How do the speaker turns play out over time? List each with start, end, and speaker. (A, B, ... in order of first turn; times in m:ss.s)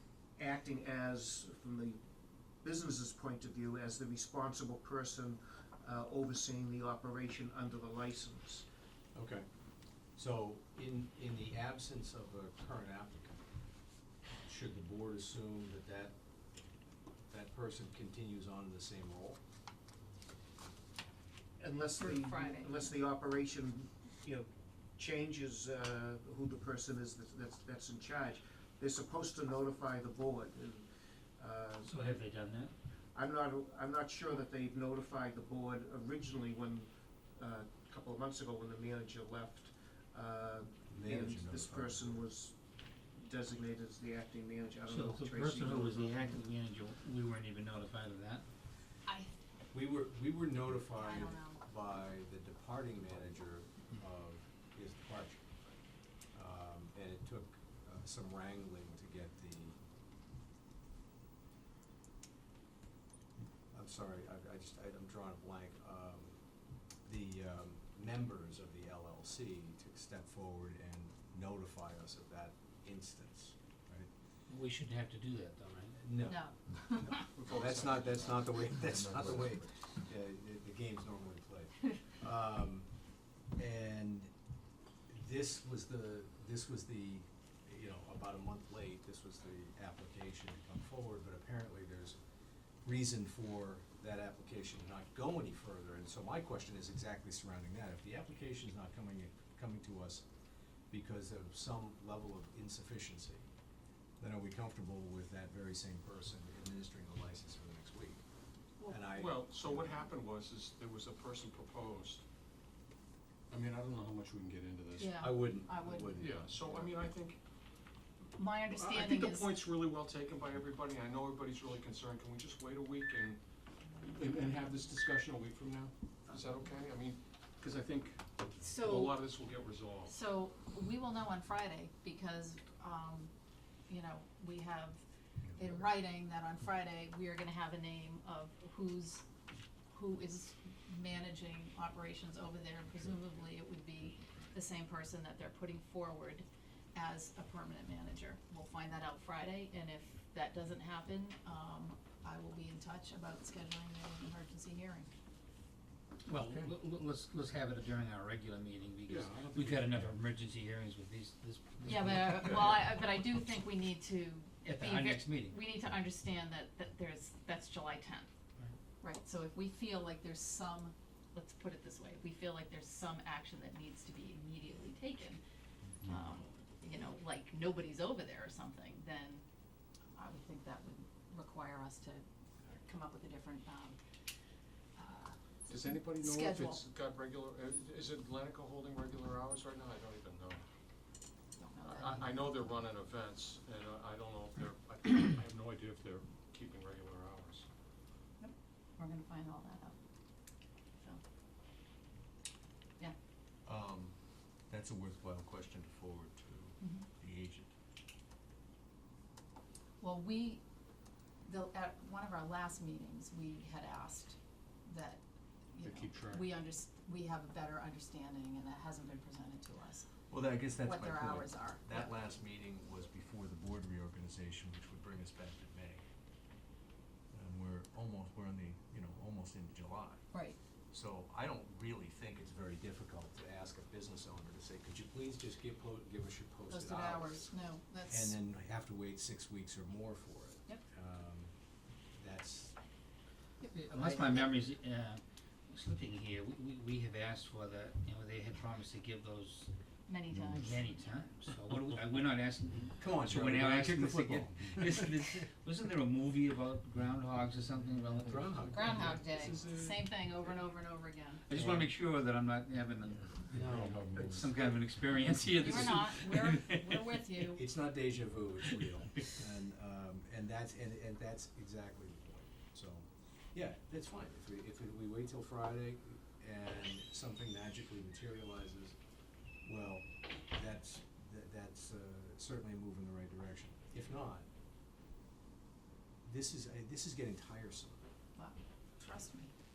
0:00.4-0:02.0 A
0:02.6-0:08.6 A
0:09.1-0:09.4 B
0:10.1-0:13.4 B
0:14.4-0:16.1 B
0:17.3-0:19.4 B
0:21.6-0:32.0 A
0:22.0-0:23.0 C
0:31.8-0:32.7 D
0:33.1-0:42.6 A
0:40.9-0:42.2 B
0:43.1-0:46.4 A
0:44.9-0:48.5 D
0:49.0-0:49.3 C
0:49.7-0:55.4 B
0:50.9-0:51.6 C
0:56.3-0:59.8 B
1:03.7-1:06.4 B
1:07.0-1:14.1 B
1:14.5-1:16.1 D
1:16.0-1:16.4 B
1:16.2-1:17.3 C
1:17.3-1:19.6 E
1:17.4-1:22.9 B
1:23.5-1:24.3 B
1:25.1-1:32.2 B
1:32.8-1:40.2 B
1:40.9-1:43.4 B
1:44.2-1:48.2 B
1:48.8-1:49.1 C
1:48.8-1:49.8 B
1:49.2-1:52.2 E
1:53.5-1:55.2 E
1:55.0-1:56.2 C
1:55.0-1:56.6 B
1:56.1-1:57.4 E
1:58.4-1:59.5 C
1:58.7-2:03.4 E
2:04.1-2:10.1 E
2:08.6-2:09.2 C
2:10.1-2:13.3 C
2:13.9-2:15.0 C
2:15.5-2:19.2 C
2:19.9-2:35.1 C
2:36.2-2:42.6 D
2:36.4-2:36.7 E
2:39.1-2:40.0 E
2:41.8-2:48.3 C
2:44.6-2:45.6 D
2:49.0-2:55.4 C
2:56.0-2:59.4 C
3:00.1-3:02.2 C
3:02.8-3:04.0 C
3:05.0-3:06.8 C
3:05.7-3:10.6 E
3:11.6-3:12.4 C
3:11.9-3:17.7 E
3:18.4-3:19.9 C
3:23.6-3:24.2 B
3:24.7-3:27.7 B
3:26.8-3:27.1 C
3:30.0-3:30.6 C
3:31.4-3:35.2 C
3:35.7-3:40.1 C
3:35.8-3:36.5 E
3:40.3-3:46.0 B
3:40.8-3:42.1 C
3:47.3-3:50.2 B
3:50.3-3:50.6 C
3:50.9-3:57.5 B
3:56.7-3:58.4 C
3:58.1-4:01.5 B
4:02.1-4:02.8 B
4:03.6-4:04.5 C
4:03.7-4:09.7 D
4:10.1-4:10.8 C
4:10.4-4:18.6 D
4:13.0-4:15.4 B
4:18.2-4:19.2 B
4:18.7-4:21.4 C
4:19.0-4:19.7 E
4:21.5-4:23.4 D
4:21.5-4:21.9 B
4:23.5-4:24.5 E
4:23.5-4:24.3 B
4:24.2-4:27.2 D
4:25.6-4:27.7 C
4:27.5-4:39.0 B
4:39.6-4:44.4 B
4:46.2-4:48.0 B
4:48.4-4:49.5 C